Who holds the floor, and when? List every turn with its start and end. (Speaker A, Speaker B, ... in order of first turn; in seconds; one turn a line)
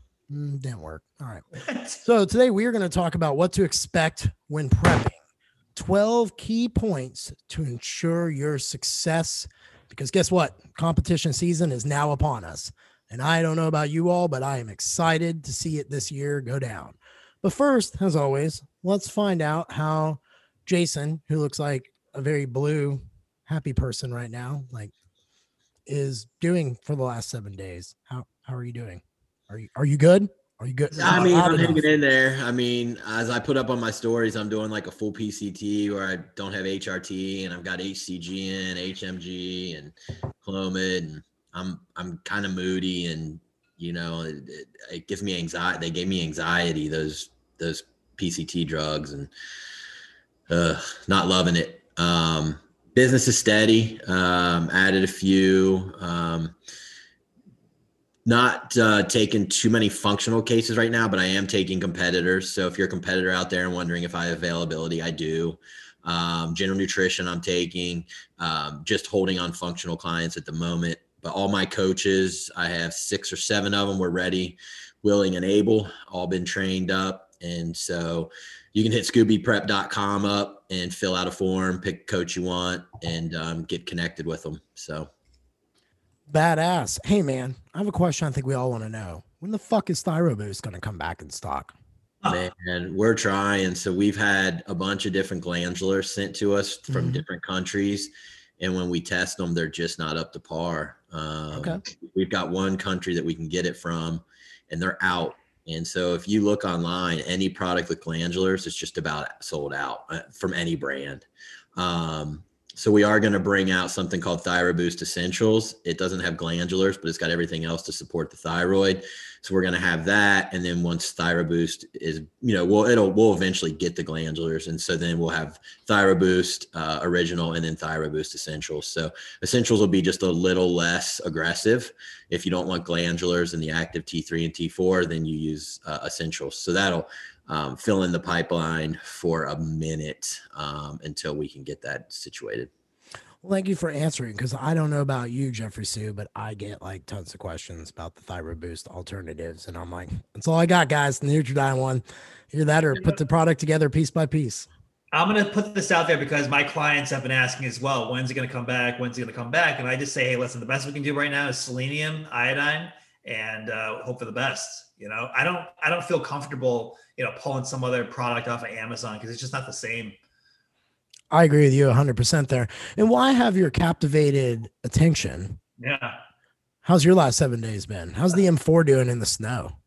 Speaker A: 0.3-1.4
Speaker B: 1.6-2.0
Speaker A: 2.0-5.2
Speaker A: 5.7-24.9
Speaker A: 25.9-31.8
Speaker C: 31.0-49.3
Speaker C: 50.5-56.5
Speaker C: 58.2-85.1
Speaker A: 86.3-91.7
Speaker C: 92.3-142.7
Speaker A: 96.9-97.2
Speaker A: 101.5-101.8
Speaker A: 143.4-154.7
Speaker B: 155.1-170.2
Speaker A: 171.3-175.6
Speaker B: 175.8-176.2
Speaker A: 176.8-179.7